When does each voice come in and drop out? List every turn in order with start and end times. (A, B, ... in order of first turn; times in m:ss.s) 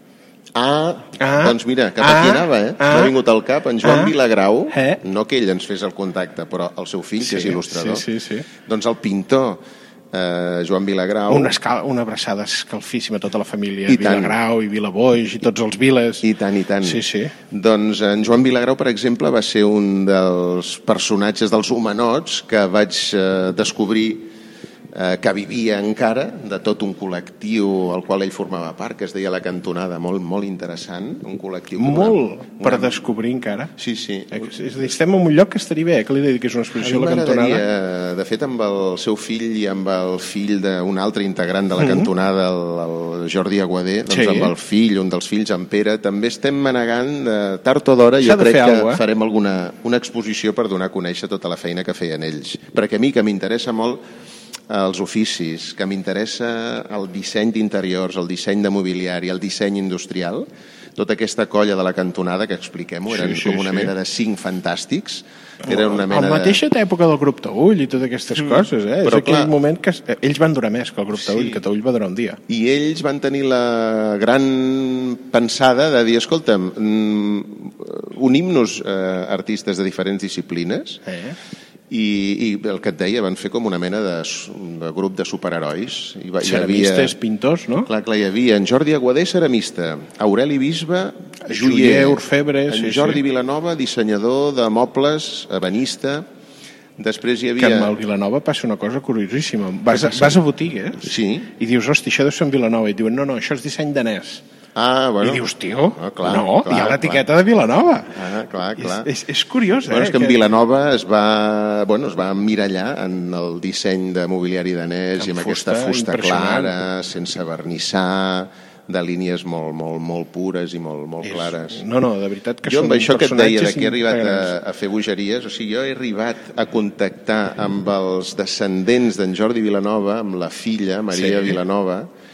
0:00.6-0:08.1 A
0:01.2-0:03.2 B
0:03.8-0:04.2 B
0:04.7-0:05.0 B
0:07.2-0:08.5 B
0:08.6-0:11.5 A
0:11.3-0:16.3 B
0:13.9-0:14.4 A
0:16.2-0:24.3 A
0:16.8-0:17.4 B
0:24.9-0:33.0 A
0:31.8-0:33.7 B
0:33.8-0:34.5 A
0:34.3-0:37.6 B
0:36.8-0:54.0 A
0:41.8-0:42.1 B
0:44.1-0:44.5 B
0:48.2-0:49.0 B
0:54.7-1:06.6 A
1:03.1-1:03.9 B
1:05.7-1:12.4 B
1:08.4-1:09.5 A
1:11.2-1:11.6 A
1:12.5-1:21.0 A
1:21.1-1:21.4 B
1:21.9-1:27.1 A
1:26.4-1:27.9 B
1:27.9-1:36.3 A
1:31.5-1:33.2 B
1:37.0-1:38.0 A
1:37.6-1:44.4 B
1:39.9-1:40.4 A
1:41.0-1:41.5 A
1:44.8-1:45.4 A
1:45.2-1:48.2 B
1:46.0-1:47.2 A
1:48.1-1:49.1 A
1:48.8-1:50.4 B
1:49.9-2:01.8 A
1:55.2-1:56.7 B
2:01.2-2:04.5 B
2:02.7-2:12.1 A
2:11.1-2:11.6 B